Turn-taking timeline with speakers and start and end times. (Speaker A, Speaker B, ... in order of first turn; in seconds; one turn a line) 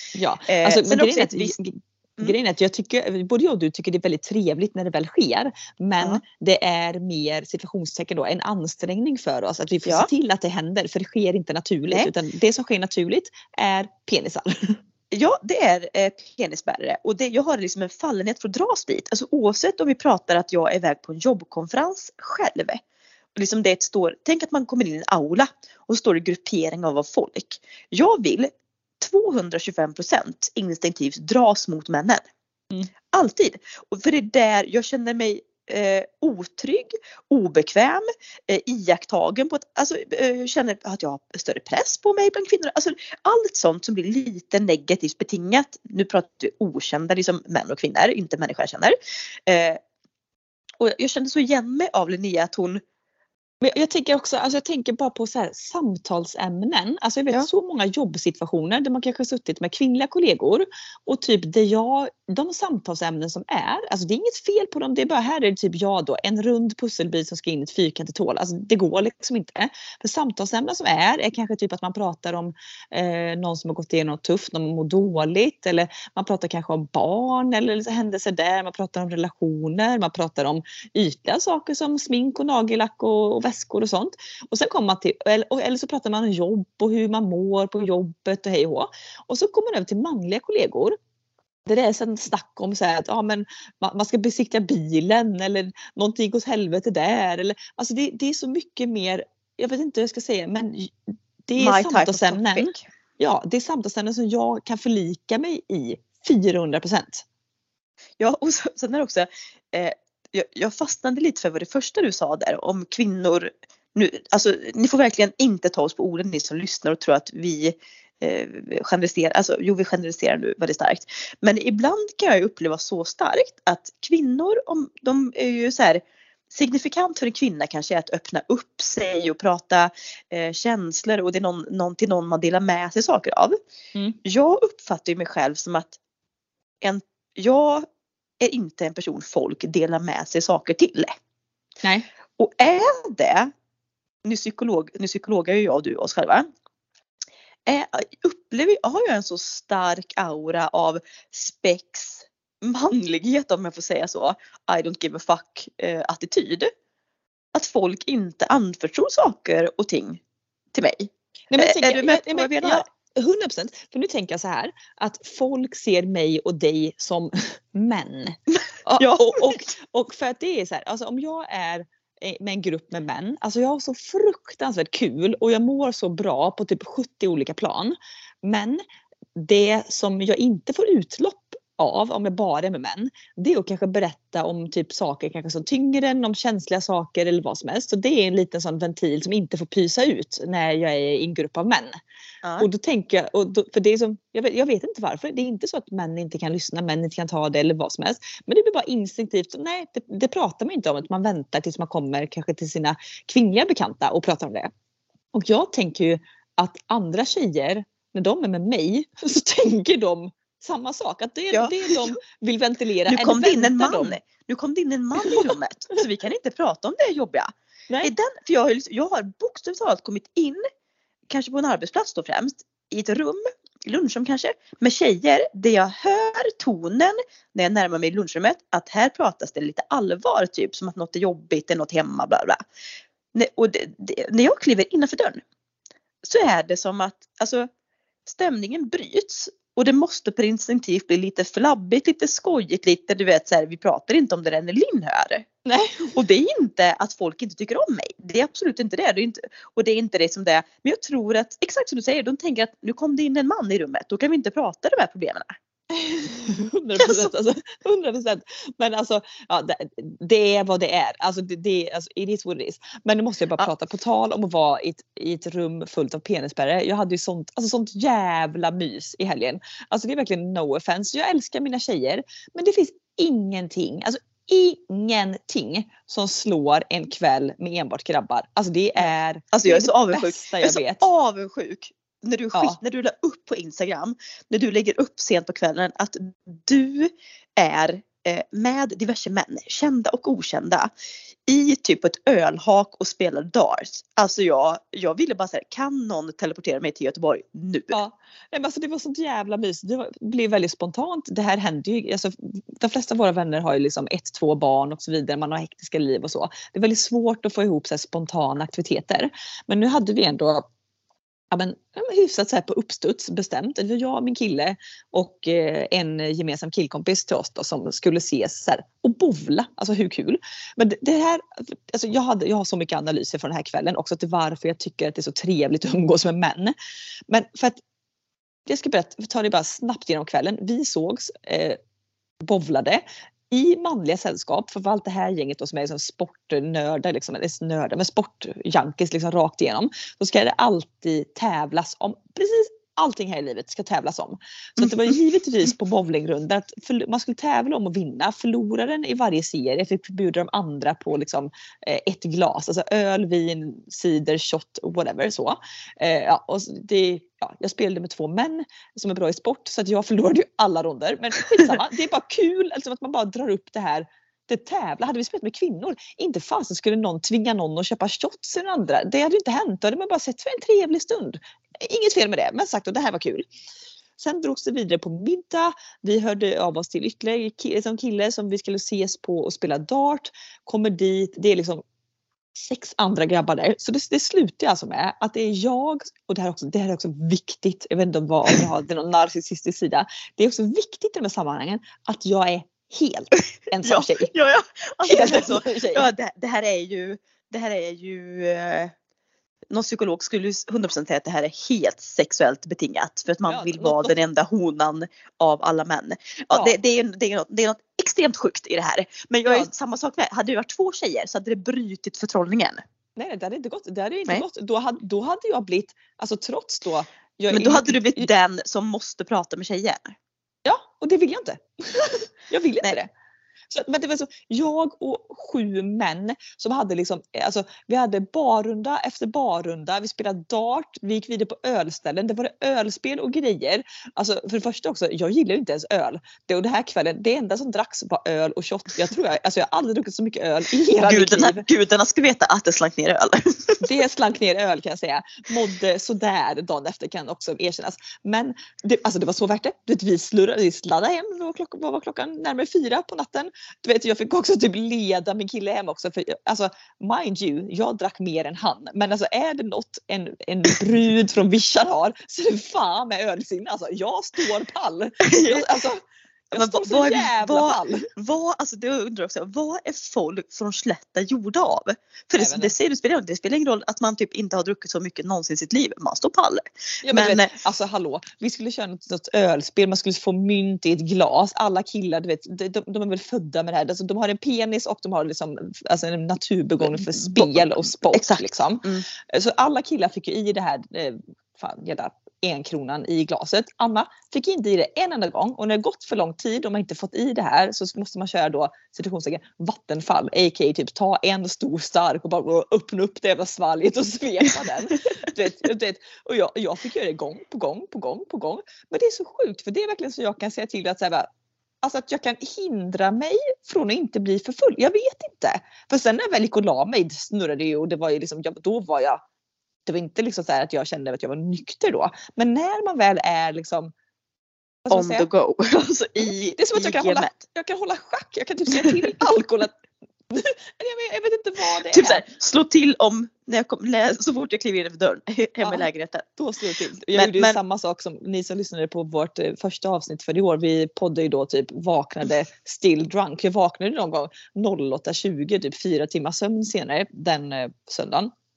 Speaker A: 0.1-14.8
Speaker B: 0.5-1.5
Speaker B: 15.1-22.8
Speaker B: 23.3-32.2
Speaker B: 33.1-49.0
Speaker B: 49.5-49.8
Speaker B: 50.8-52.8
Speaker A: 53.6-91.0
Speaker A: 91.7-107.2
Speaker B: 101.6-102.8
Speaker B: 108.2-133.6
Speaker B: 134.2-136.0
Speaker B: 136.8-137.8
Speaker B: 138.4-141.1
Speaker B: 142.4-143.5
Speaker B: 144.2-146.5
Speaker B: 147.7-156.7
Speaker B: 157.5-160.2
Speaker B: 160.7-162.8
Speaker A: 161.5-178.8
Speaker B: 169.0-169.6
Speaker A: 179.3-191.9
Speaker B: 192.4-192.7
Speaker A: 192.6-204.7
Speaker A: 205.3-214.2
Speaker B: 211.5-212.2
Speaker B: 213.1-217.5
Speaker A: 215.2-215.5
Speaker B: 218.0-220.6
Speaker B: 221.3-232.6
Speaker B: 233.3-235.4
Speaker B: 236.2-237.7
Speaker B: 238.2-245.5
Speaker A: 245.6-246.2
Speaker B: 246.1-255.5
Speaker A: 255.9-281.1
Speaker B: 257.0-257.3
Speaker B: 279.5-290.9
Speaker A: 282.5-282.8
Speaker B: 291.5-298.0
Speaker A: 297.9-310.6
Speaker A: 311.5-326.7
Speaker A: 327.3-327.8
Speaker A: 328.6-331.8
Speaker A: 332.4-373.5
Speaker A: 374.2-381.8
Speaker A: 382.5-394.3
Speaker B: 393.8-398.9
Speaker A: 395.1-396.1
Speaker B: 399.7-412.8
Speaker A: 403.4-404.1
Speaker A: 413.1-418.3
Speaker B: 417.5-420.1
Speaker A: 420.6-423.1
Speaker A: 423.7-441.6
Speaker B: 441.0-443.8
Speaker A: 443.8-468.1
Speaker B: 465.2-465.7
Speaker B: 466.5-477.5
Speaker A: 472.4-472.7
Speaker A: 477.0-511.3
Speaker B: 486.8-489.0
Speaker A: 511.8-519.2
Speaker A: 519.9-523.9
Speaker A: 524.8-525.3
Speaker B: 524.9-527.4
Speaker A: 526.5-529.8
Speaker A: 530.3-532.2
Speaker B: 531.9-536.3
Speaker A: 536.4-548.3
Speaker B: 537.1-537.6